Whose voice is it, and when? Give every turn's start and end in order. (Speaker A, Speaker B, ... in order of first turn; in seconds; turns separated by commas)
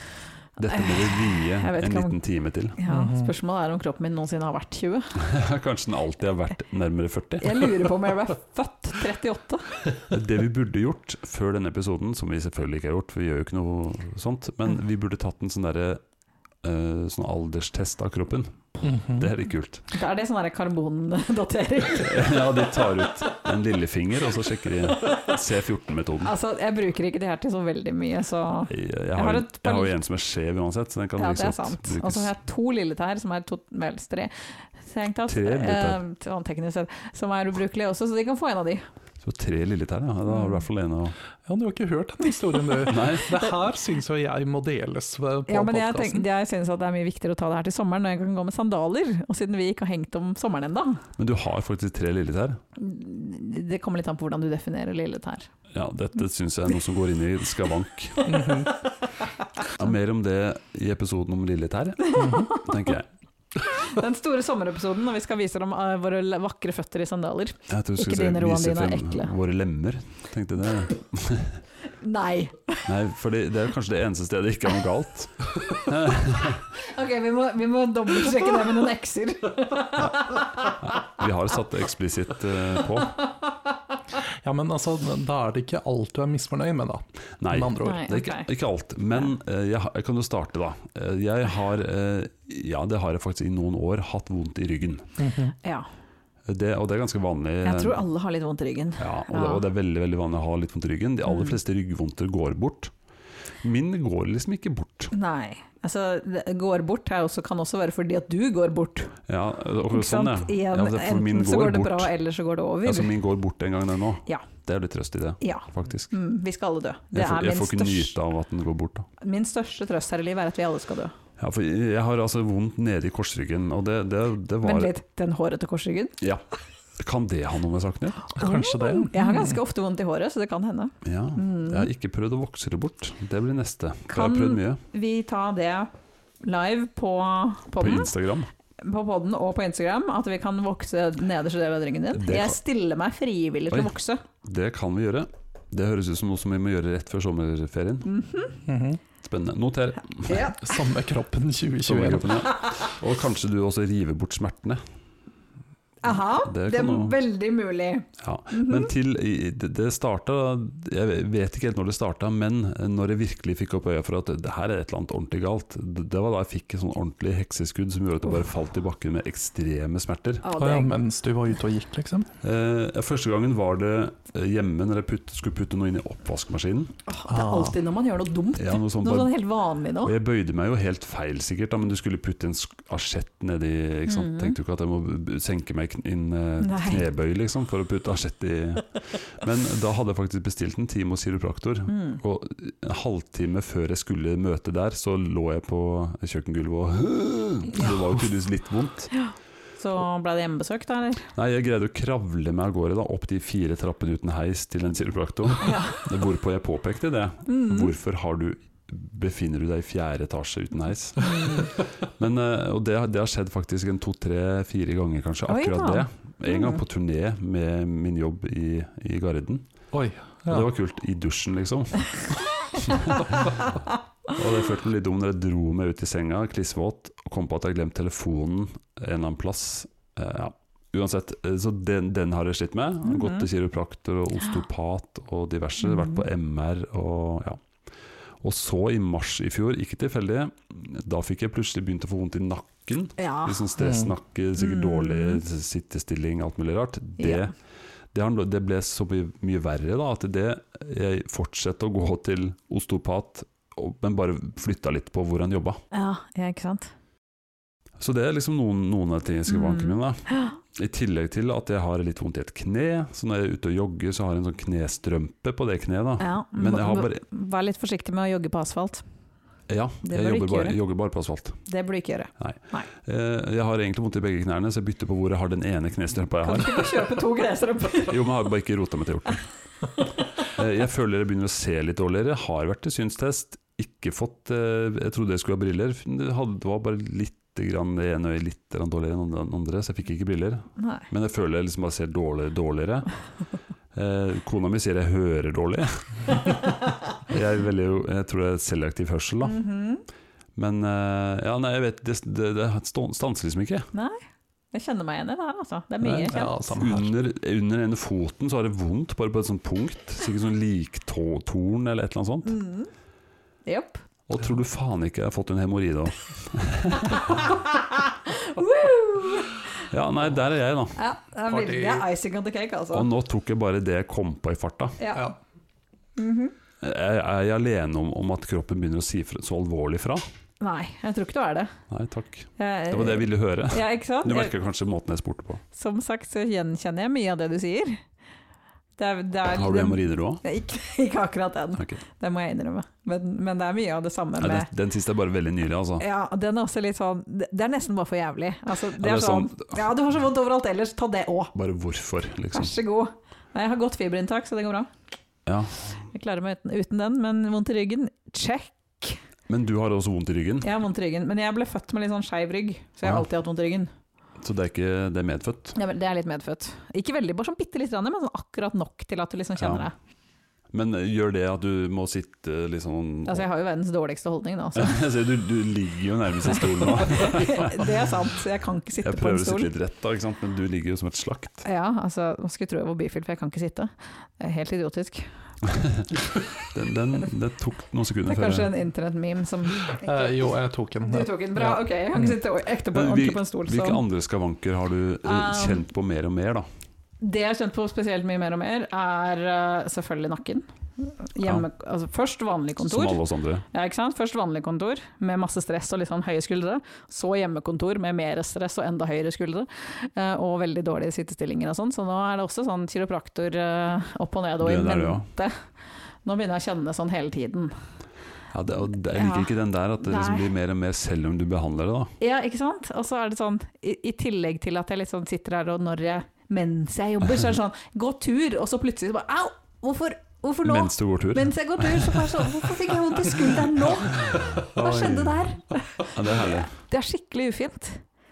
Speaker A: 0.6-2.8, Speaker B: 0.7-2.2, Speaker B: 2.8-5.2, Speaker C: 2.9-3.3, Speaker A: 5.2-7.8, Speaker B: 7.4-9.7, Speaker A: 10.1-16.0, Speaker A: 16.6-19.9, Speaker C: 18.8-19.3, Speaker B: 19.9-23.1, Speaker A: 21.9-26.3, Speaker B: 26.2-29.9, Speaker A: 28.7-32.3, Speaker B: 31.2-38.8, Speaker A: 35.3-36.0, Speaker A: 39.2-41.2, Speaker B: 40.3-40.6, Speaker C: 41.5-46.3, Speaker A: 42.9-43.4, Speaker B: 45.5-51.0, Speaker A: 51.2-52.6, Speaker B: 52.8-55.5, Speaker A: 55.7-58.2, Speaker B: 58.2-58.9, Speaker C: 58.3-58.7, Speaker A: 59.7-63.1, Speaker B: 62.0-62.7, Speaker C: 62.2-62.5, Speaker B: 63.7-69.3, Speaker A: 67.7-71.6, Speaker B: 72.0-72.9, Speaker A: 72.9-76.7, Speaker B: 76.8-81.0, Speaker A: 80.7-83.2, Speaker C: 84.3-88.0, Speaker A: 87.4-95.1, Speaker B: 87.8-88.5, Speaker C: 95.2-95.5, Speaker A: 96.5-98.0, Speaker B: 97.6-99.6, Speaker A: 99.0-102.9, Speaker B: 101.3-101.5, Speaker A: 103.6-105.1, Speaker B: 105.1-109.1, Speaker A: 109.3-112.1, Speaker B: 109.9-113.1, Speaker A: 112.8-116.1, Speaker B: 115.4-118.1, Speaker A: 117.1-119.1, Speaker B: 119.2-121.2, Speaker A: 121.4-124.9, Speaker B: 124.6-126.2, Speaker A: 127.0-128.3, Speaker B: 128.3-131.9, Speaker C: 128.4-129.6, Speaker A: 131.0-134.8, Speaker B: 134.1-135.9, Speaker B: 136.4-138.1, Speaker A: 137.8-138.5, Speaker B: 138.8-144.2, Speaker A: 142.1-142.6, Speaker A: 144.4-148.1, Speaker B: 148.1-148.6, Speaker C: 148.7-149.0, Speaker A: 149.2-150.5, Speaker B: 150.3-150.7, Speaker C: 150.6-152.4, Speaker A: 151.8-154.8, Speaker B: 156.0-158.9, Speaker A: 156.3-157.2, Speaker A: 158.2-170.4, Speaker B: 170.4-170.9, Speaker C: 170.6-172.3, Speaker A: 172.4-176.9, Speaker B: 177.1-180.1, Speaker C: 177.3-177.8, Speaker A: 178.6-179.4, Speaker A: 180.0-199.1, Speaker B: 184.1-184.6, Speaker B: 186.6-187.1, Speaker B: 191.9-192.2, Speaker B: 199.1-201.2, Speaker A: 201.3-219.7, Speaker B: 205.6-206.1, Speaker B: 207.5-207.9, Speaker B: 211.2-211.6, Speaker B: 215.5-216.8, Speaker C: 219.9-220.7, Speaker A: 220.5-222.2, Speaker A: 222.7-223.7, Speaker A: 224.3-237.6, Speaker B: 233.1-233.5, Speaker B: 235.8-236.2, Speaker A: 238.4-247.5, Speaker B: 243.2-243.7, Speaker C: 243.8-244.1, Speaker B: 244.6-245.4, Speaker B: 247.2-247.5, Speaker A: 248.1-255.8, Speaker B: 255.9-256.9, Speaker A: 258.0-267.2, Speaker B: 259.5-260.6, Speaker B: 266.2-269.0, Speaker A: 269.7-271.6, Speaker B: 270.0-270.8, Speaker B: 271.7-272.9, Speaker A: 272.4-277.1, Speaker B: 276.4-278.2, Speaker A: 278.0-279.5, Speaker A: 280.4-293.1, Speaker B: 290.8-291.1, Speaker A: 293.9-296.4, Speaker A: 297.3-299.6, Speaker B: 299.4-300.0, Speaker A: 300.6-303.9, Speaker B: 303.9-304.2, Speaker B: 304.7-306.7, Speaker C: 306.0-307.1, Speaker A: 306.7-312.6, Speaker B: 312.4-312.9, Speaker B: 313.7-314.0, Speaker A: 314.3-317.4, Speaker B: 317.1-319.8, Speaker A: 319.9-321.0, Speaker B: 321.0-323.1, Speaker C: 321.5-322.1, Speaker A: 322.9-325.0, Speaker B: 325.0-325.3, Speaker B: 326.2-326.5, Speaker A: 326.8-330.2, Speaker B: 330.6-331.7, Speaker A: 331.9-335.6, Speaker B: 332.6-334.5, Speaker B: 335.7-338.0, Speaker B: 339.0-344.7, Speaker A: 339.5-340.4, Speaker A: 344.4-346.1, Speaker B: 346.0-351.5, Speaker A: 349.0-349.7, Speaker A: 351.6-352.8, Speaker B: 352.5-354.9, Speaker A: 355.5-355.9, Speaker B: 356.1-359.2, Speaker A: 359.5-360.7, Speaker B: 360.6-363.9, Speaker A: 364.4-365.8, Speaker B: 365.8-369.9, Speaker A: 369.6-369.9, Speaker A: 370.7-373.5, Speaker B: 373.3-375.0, Speaker A: 374.8-377.9, Speaker B: 376.7-379.7, Speaker A: 379.0-381.6, Speaker B: 381.6-385.3, Speaker A: 386.6-388.7, Speaker B: 388.3-390.4, Speaker C: 389.9-391.8, Speaker B: 391.0-394.0, Speaker A: 392.2-396.6, Speaker B: 395.2-395.8, Speaker B: 397.2-415.6, Speaker A: 402.8-403.6, Speaker A: 414.6-415.3, Speaker B: 416.2-417.8, Speaker A: 418.5-422.1, Speaker B: 419.1-419.5, Speaker B: 420.0-420.5, Speaker B: 422.2-438.0, Speaker A: 430.6-432.4, Speaker A: 434.5-435.3, Speaker C: 434.8-435.1, Speaker A: 436.1-436.7